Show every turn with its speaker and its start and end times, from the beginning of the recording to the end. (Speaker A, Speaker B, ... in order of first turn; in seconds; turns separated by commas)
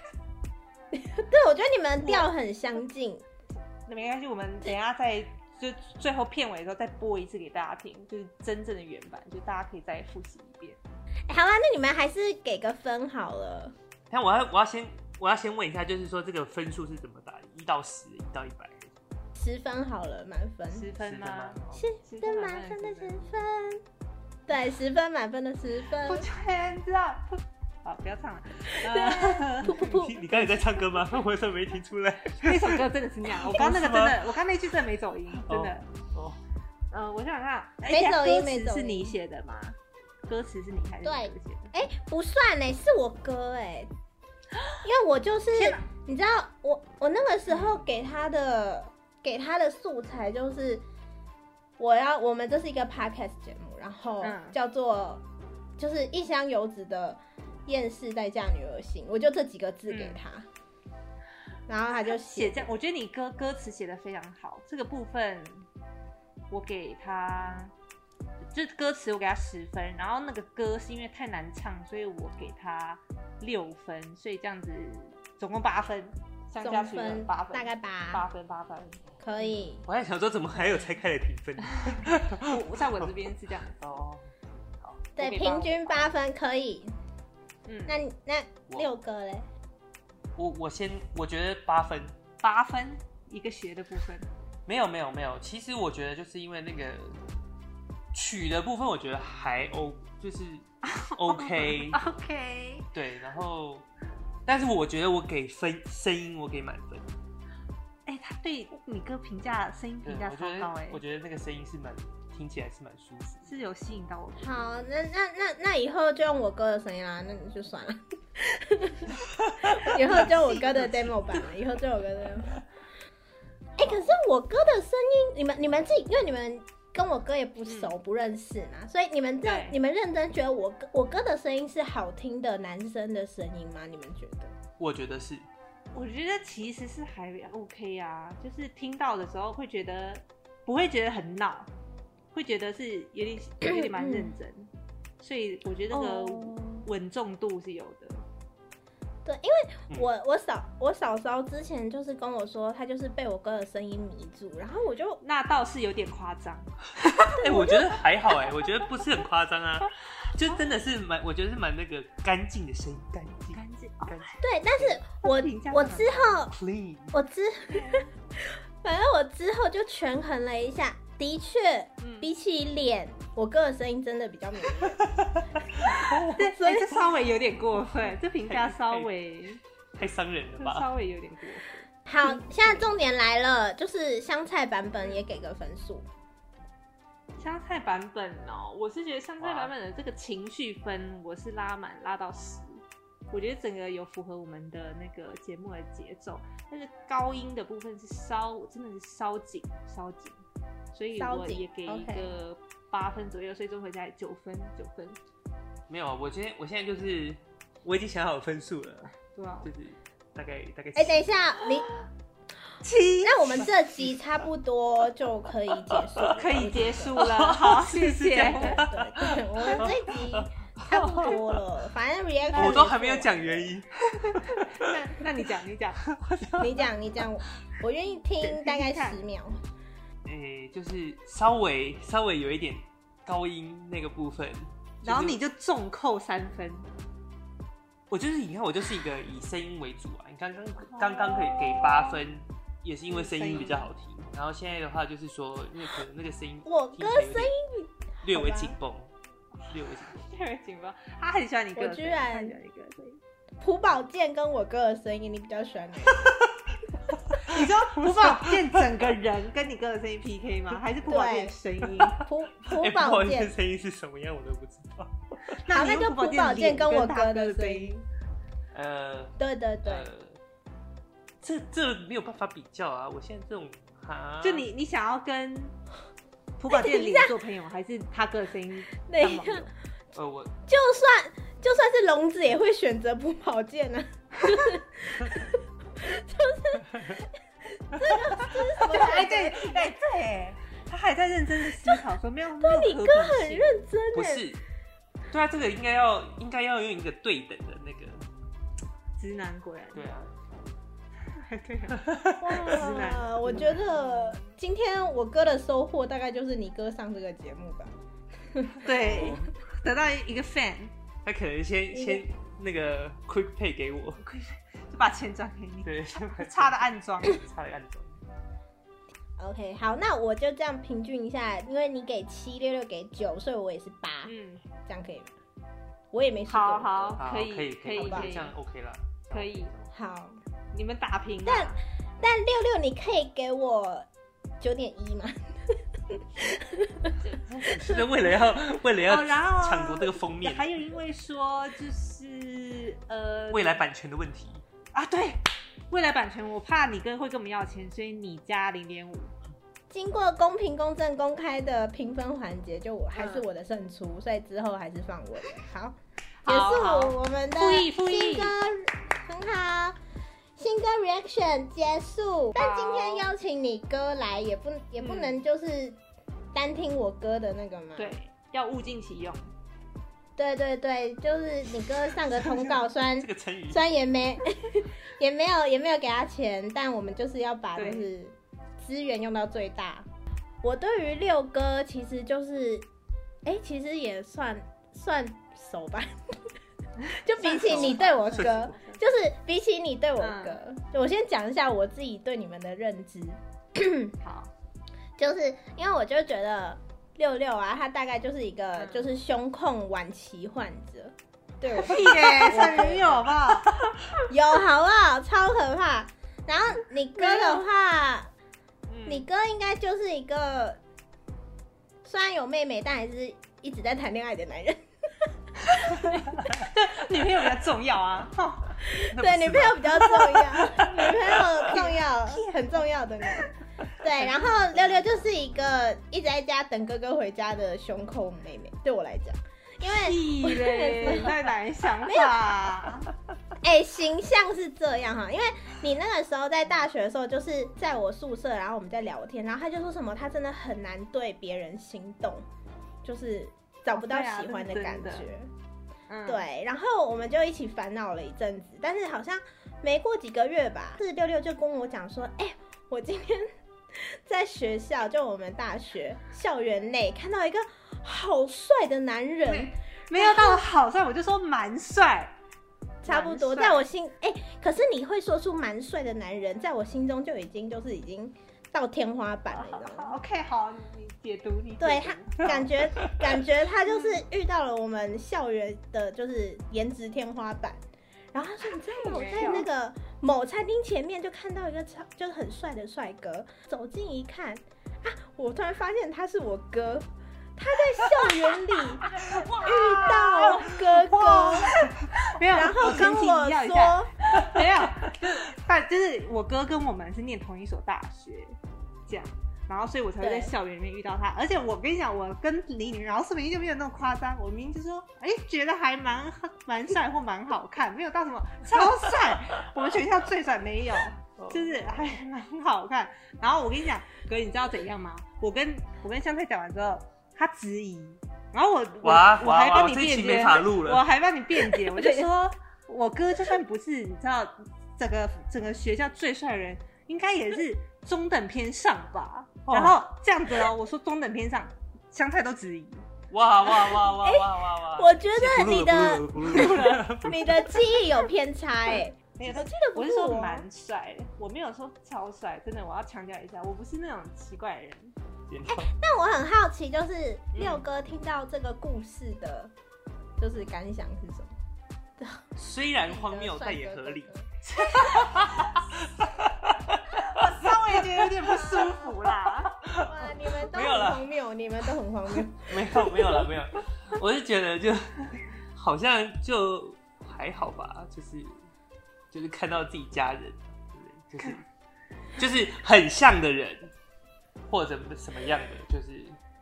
Speaker A: 0.9-3.2, Speaker B: 3.8-10.8, Speaker A: 11.3-13.7, Speaker C: 14.1-18.9, Speaker A: 19.4-20.9, Speaker B: 20.7-23.2, Speaker C: 21.0-21.9, Speaker A: 21.7-23.8, Speaker A: 24.5-26.3, Speaker B: 26.0-30.1, Speaker A: 28.8-30.3, Speaker C: 29.7-32.8, Speaker B: 32.4-35.9, Speaker C: 33.3-34.2, Speaker C: 35.4-36.4, Speaker B: 36.9-41.7, Speaker A: 37.9-39.1, Speaker A: 41.0-43.9, Speaker A: 44.8-50.8, Speaker B: 45.5-45.8, Speaker B: 47.5-47.8, Speaker A: 51.8-55.2, Speaker B: 54.2-54.6, Speaker A: 55.8-60.5, Speaker B: 59.9-60.2, Speaker A: 61.7-62.7, Speaker B: 62.0-65.7, Speaker B: 66.5-67.7, Speaker B: 68.5-79.6, Speaker A: 76.6-78.2, Speaker A: 79.2-79.8, Speaker C: 79.8-83.1, Speaker B: 82.4-83.8, Speaker C: 83.8-85.0, Speaker A: 85.2-86.9, Speaker B: 85.2-86.1, Speaker B: 87.7-88.0, Speaker A: 87.9-89.5, Speaker C: 90.3-92.2, Speaker B: 92.4-94.3, Speaker C: 94.7-97.2, Speaker C: 98.1-102.0, Speaker B: 100.8-102.9, Speaker C: 102.9-103.8, Speaker C: 104.5-107.1, Speaker B: 108.0-111.0, Speaker C: 110.0-113.5, Speaker B: 113.4-114.6, Speaker A: 114.4-122.6, Speaker C: 119.4-120.2, Speaker B: 120.2-120.9, Speaker A: 123.8-134.6, Speaker B: 123.8-124.1, Speaker B: 127.7-127.9, Speaker B: 129.4-129.8, Speaker C: 134.8-135.5, Speaker B: 135.9-141.7, Speaker B: 142.3-148.2, Speaker A: 143.7-144.3, Speaker A: 145.9-146.9, Speaker A: 149.2-155.2, Speaker B: 155.2-157.3, Speaker C: 157.3-165.0, Speaker A: 157.4-158.0, Speaker B: 160.4-160.7, Speaker B: 163.5-164.3, Speaker A: 164.4-166.5, Speaker B: 165.2-166.5, Speaker C: 166.5-167.1, Speaker A: 167.1-175.0, Speaker B: 167.7-168.1, Speaker B: 172.0-172.3, Speaker C: 175.0-176.4, Speaker B: 176.3-179.6, Speaker A: 176.3-177.0, Speaker C: 178.5-179.1, Speaker C: 179.9-180.9, Speaker B: 180.6-182.9, Speaker A: 182.1-186.1, Speaker B: 187.4-200.4, Speaker C: 189.4-189.7, Speaker B: 200.9-205.2, Speaker A: 201.1-202.3, Speaker C: 205.9-211.3, Speaker B: 209.3-209.7, Speaker A: 210.9-211.9, Speaker B: 212.8-213.7, Speaker A: 213.2-217.3, Speaker B: 216.3-218.8, Speaker C: 217.2-221.4, Speaker A: 218.3-223.7, Speaker C: 222.5-224.8, Speaker B: 224.2-226.1, Speaker C: 226.1-226.7, Speaker A: 226.6-229.6, Speaker B: 228.4-229.2, Speaker C: 230.2-235.4, Speaker B: 235.0-236.9, Speaker C: 238.1-247.5, Speaker B: 240.8-242.1, Speaker B: 243.1-243.9, Speaker A: 246.7-248.8, Speaker C: 248.2-249.1, Speaker C: 249.7-250.2, Speaker B: 250.1-253.2, Speaker A: 251.8-252.6, Speaker A: 253.6-256.3, Speaker C: 256.1-256.5, Speaker B: 257.4-262.2, Speaker C: 257.5-258.6, Speaker A: 261.0-261.6, Speaker C: 262.0-265.5, Speaker A: 262.2-263.5, Speaker B: 265.6-267.9, Speaker A: 265.7-268.0, Speaker C: 268.7-270.4, Speaker A: 269.4-270.1, Speaker C: 271.4-274.7, Speaker B: 274.4-275.7, Speaker B: 276.6-279.7, Speaker A: 276.7-277.3, Speaker A: 279.1-279.7, Speaker C: 280.1-280.5, Speaker A: 280.7-289.9, Speaker B: 288.5-293.9, Speaker A: 292.6-294.4, Speaker C: 294.1-294.6, Speaker C: 295.3-298.2, Speaker B: 299.2-300.1, Speaker C: 299.9-300.4, Speaker B: 301.3-303.8, Speaker C: 301.9-302.8, Speaker A: 302.4-307.9, Speaker A: 308.5-309.4, Speaker B: 308.8-310.9, Speaker C: 308.9-309.5, Speaker C: 311.2-314.2, Speaker A: 311.9-312.2, Speaker B: 314.2-317.4, Speaker C: 315.8-318.2, Speaker A: 319.4-324.3, Speaker B: 324.2-324.6, Speaker A: 324.9-325.3, Speaker A: 326.1-327.2, Speaker B: 326.5-328.5, Speaker C: 327.2-329.9, Speaker A: 327.9-328.3, Speaker B: 329.3-329.7, Speaker A: 329.9-330.4, Speaker B: 330.7-331.8, Speaker A: 331.4-334.1, Speaker A: 334.6-338.0, Speaker C: 337.2-340.8, Speaker B: 339.1-343.8, Speaker C: 343.5-344.6, Speaker B: 344.9-349.3, Speaker A: 349.9-360.0, Speaker B: 353.1-353.4, Speaker B: 356.4-358.5, Speaker A: 360.6-366.0, Speaker B: 362.6-363.3, Speaker B: 365.0-365.4, Speaker A: 366.5-368.1, Speaker B: 367.9-369.5, Speaker A: 370.4-380.1, Speaker C: 373.1-373.9, Speaker B: 377.7-378.1, Speaker A: 380.6-382.9, Speaker A: 383.4-386.1, Speaker B: 387.0-389.0, Speaker A: 387.1-394.1, Speaker C: 387.6-388.7, Speaker B: 390.2-390.6, Speaker B: 394.2-394.5, Speaker A: 395.2-403.4, Speaker B: 398.8-399.1, Speaker B: 401.8-403.7, Speaker A: 404.3-408.3, Speaker B: 407.1-407.6, Speaker B: 408.9-409.3, Speaker A: 409.1-410.8, Speaker A: 412.0-415.3, Speaker B: 415.8-418.8, Speaker A: 418.8-431.4, Speaker C: 419.1-420.8, Speaker B: 421.7-422.5, Speaker B: 424.2-424.9, Speaker B: 429.8-433.1, Speaker A: 432.0-432.3, Speaker A: 433.6-442.4, Speaker A: 443.0-445.5, Speaker B: 443.9-445.3, Speaker B: 446.1-446.4, Speaker A: 446.2-460.6, Speaker B: 459.5-462.3, Speaker A: 463.0-470.1, Speaker B: 463.0-463.9, Speaker B: 469.5-472.6, Speaker A: 471.8-477.8, Speaker C: 472.5-473.2, Speaker B: 473.9-474.2, Speaker A: 478.3-489.1, Speaker B: 478.9-479.7, Speaker B: 489.0-533.1, Speaker A: 489.6-491.8, Speaker A: 492.5-494.1, Speaker A: 500.2-500.5, Speaker C: 511.4-512.1, Speaker C: 519.0-521.0, Speaker A: 521.8-522.2, Speaker C: 529.7-530.0, Speaker C: 533.3-537.9, Speaker A: 533.8-540.6, Speaker B: 536.5-537.0, Speaker B: 539.4-545.1, Speaker C: 545.5-545.9, Speaker A: 545.7-549.7, Speaker B: 547.5-547.8, Speaker A: 550.4-551.5, Speaker A: 552.2-552.5, Speaker C: 552.6-554.3, Speaker A: 553.0-554.5, Speaker B: 554.7-555.4, Speaker C: 554.8-558.7, Speaker B: 557.1-559.8, Speaker A: 558.6-559.0, Speaker C: 559.8-561.3, Speaker A: 560.0-563.4, Speaker C: 562.6-568.6, Speaker C: 569.3-571.6, Speaker C: 572.3-573.9, Speaker C: 574.7-576.4